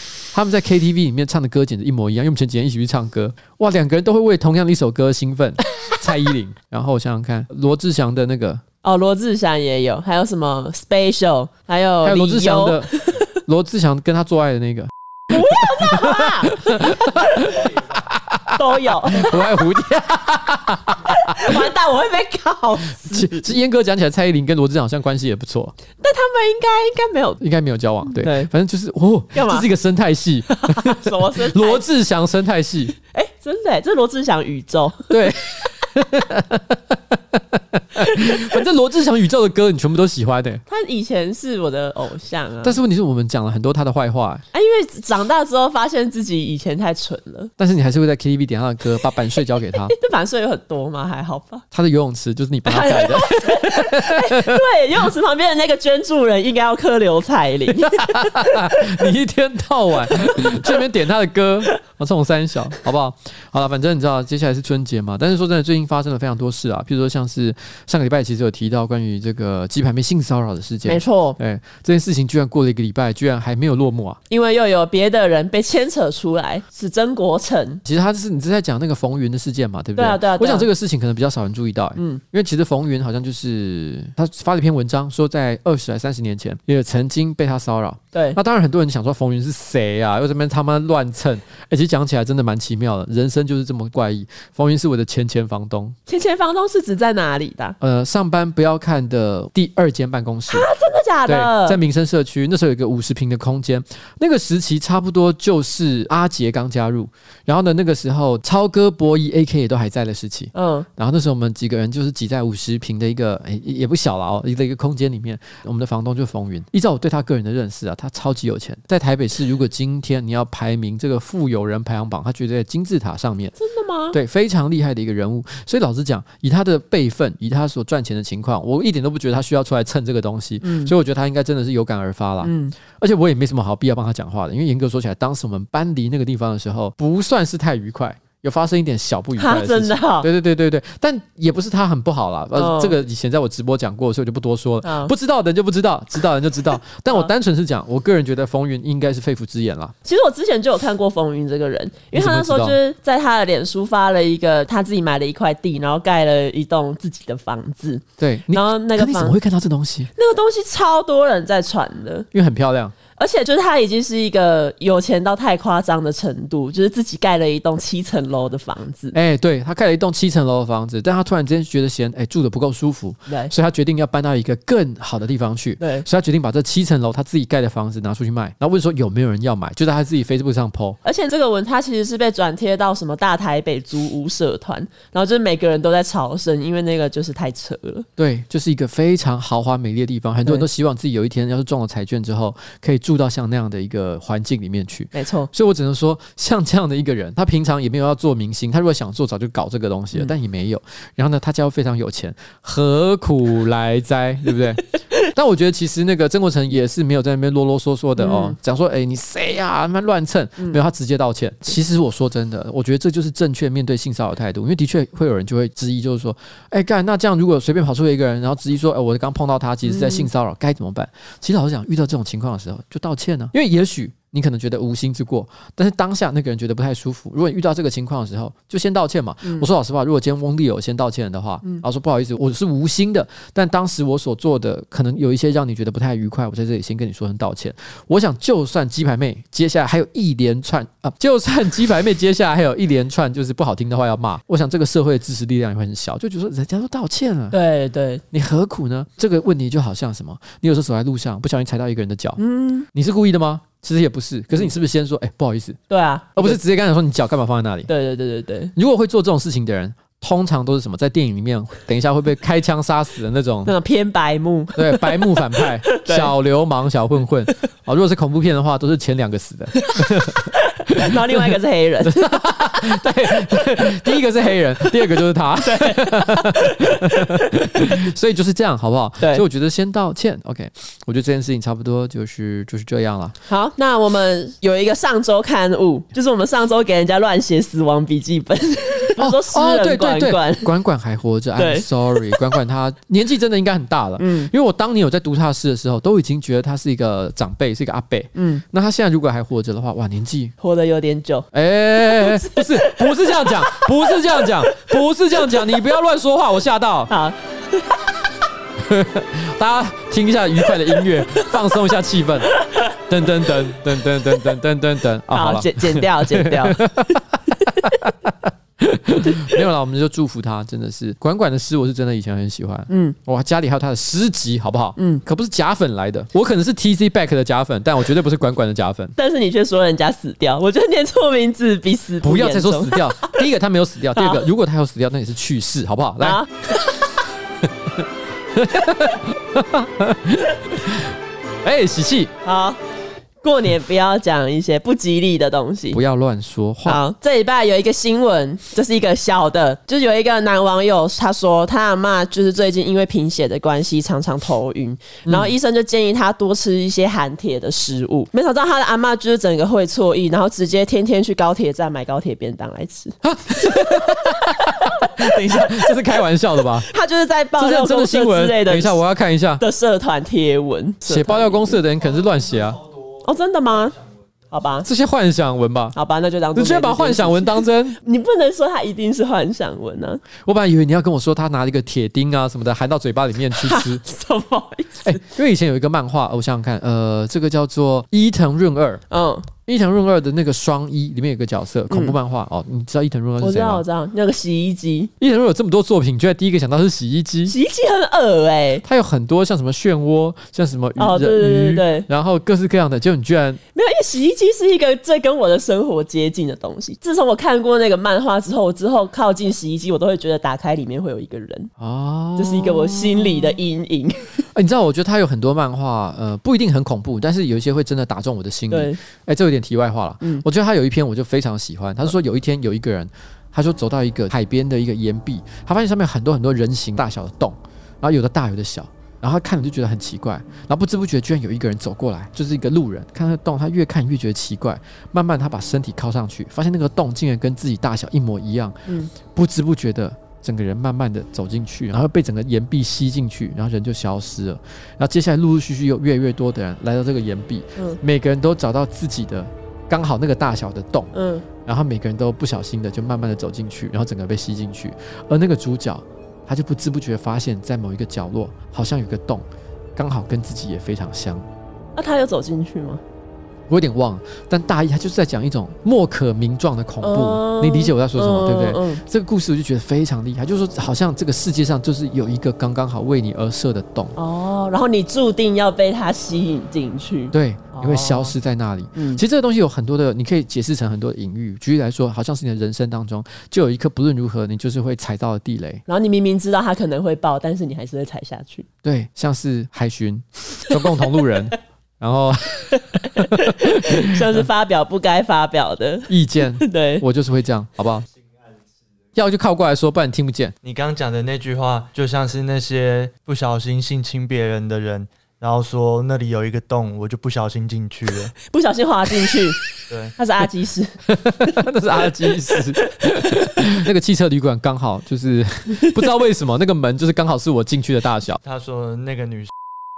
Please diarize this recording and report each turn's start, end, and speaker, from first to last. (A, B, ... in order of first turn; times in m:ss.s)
0:00.3-0:08.6 A
0:08.8-0:13.0 B
0:12.0-0:21.6 A
0:15.3-0:17.7 B
0:18.6-0:19.6 B
0:21.1-0:23.5 B
0:23.0-0:25.8 A
0:26.0-0:27.4 B
0:27.4-0:33.0 A
0:28.1-0:28.5 B
0:29.3-0:29.7 B
0:30.6-0:31.8 B
0:33.1-0:35.3 B
0:35.1-0:40.6 A
0:40.7-0:42.8 B
0:42.6-0:44.4 A
0:44.5-0:47.5 B
0:47.6-0:49.9 A
0:49.9-0:51.6 B
0:51.7-0:54.6 A
0:52.6-0:59.0 B
0:57.7-1:14.2 A
1:00.1-1:00.8 B
1:10.9-1:11.4 B
1:14.3-1:17.8 B
1:17.8-1:36.0 A
1:20.0-1:20.7 B
1:36.1-1:37.8 B
1:37.8-1:40.7 A
1:40.5-1:41.8 B
1:41.2-2:03.5 A
1:50.5-1:50.9 B
2:03.6-2:04.2 B
2:04.1-2:29.9 A
2:10.6-2:10.9 B
2:12.4-2:12.7 B
2:19.4-2:20.3 B
2:22.6-2:23.0 B
2:24.8-2:25.1 B
2:30.0-2:39.4 B
2:32.1-2:32.8 A
2:38.2-2:40.1 A
2:40.1-2:42.3 B
2:42.3-2:43.0 A
2:43.2-2:49.1 B
2:49.1-3:01.0 A
2:53.3-2:53.5 B
2:55.8-2:56.1 B
3:01.0-3:08.1 B
3:08.2-4:07.6 A
3:15.1-3:15.5 B
3:28.2-3:28.6 B
3:39.8-3:40.3 B
4:07.5-4:08.2 B
4:08.3-4:12.4 A
4:12.4-4:12.9 B
4:12.9-4:15.8 A
4:15.9-4:16.6 B
4:16.3-4:17.9 A
4:17.9-4:18.7 B
4:18.7-4:23.7 A
4:23.6-4:26.3 B
4:24.8-4:31.3 A
4:30.0-4:32.3 B
4:32.0-4:43.4 A
4:33.5-4:33.9 B
4:35.6-4:37.5 B
4:39.2-4:39.4 B
4:43.5-4:50.7 B
4:49.2-5:00.5 A
4:51.6-4:52.5 B
4:54.2-4:54.5 B
4:58.3-4:58.6 B
5:00.6-5:04.7 B
5:01.5-5:07.1 A
5:07.1-5:08.1 B
5:08.8-5:29.1 A
5:15.3-5:17.2 B
5:19.4-5:19.6 B
5:22.9-5:23.2 B
5:25.0-5:25.2 B
5:29.2-5:33.4 B
5:32.2-5:36.4 A
5:34.2-5:34.4 B
5:36.2-5:37.0 B
5:38.5-5:42.3 A
5:42.4-5:42.8 B
5:43.4-5:46.0 B
5:45.9-5:47.0 A
5:46.8-6:05.9 B
5:55.2-5:55.5 A
6:03.2-6:06.9 A
6:06.8-6:09.0 B
6:07.6-6:09.6 A
6:09.6-6:11.8 B
6:11.0-6:12.8 A
6:13.2-6:14.0 B
6:14.5-6:14.9 B
6:14.8-6:16.0 A
6:15.9-6:20.2 B
6:16.5-6:18.0 A
6:20.4-6:24.0 A
6:23.5-6:25.2 B
6:25.0-6:29.0 A
6:29.1-6:29.5 B
6:29.6-6:33.8 A
6:31.9-6:32.2 B
6:33.4-6:35.1 B
6:35.2-6:37.5 A
6:37.5-6:38.8 B
6:38.8-6:43.6 A
6:41.0-6:42.1 B
6:43.7-6:51.7 B
6:51.8-6:53.6 A
6:52.4-6:54.4 B
6:54.5-7:31.1 A
6:58.7-6:59.0 B
7:31.1-7:31.4 B
7:31.6-7:39.4 A
7:40.0-7:41.4 A
7:42.0-7:43.0 B
7:43.7-7:54.2 A
7:47.0-7:49.0 B
7:54.2-7:58.3 B
7:57.3-8:05.8 A
7:59.0-7:59.2 B
8:05.9-8:08.7 B
8:08.8-8:14.4 A
8:13.2-8:17.0 B
8:16.1-8:18.1 A
8:19.1-8:20.5 A
8:20.6-8:28.4 C
8:28.4-8:29.6 B
8:29.9-8:30.2 C
8:30.2-8:31.5 B
8:31.1-8:38.4 A
8:32.2-8:32.7 B
8:38.4-8:39.5 C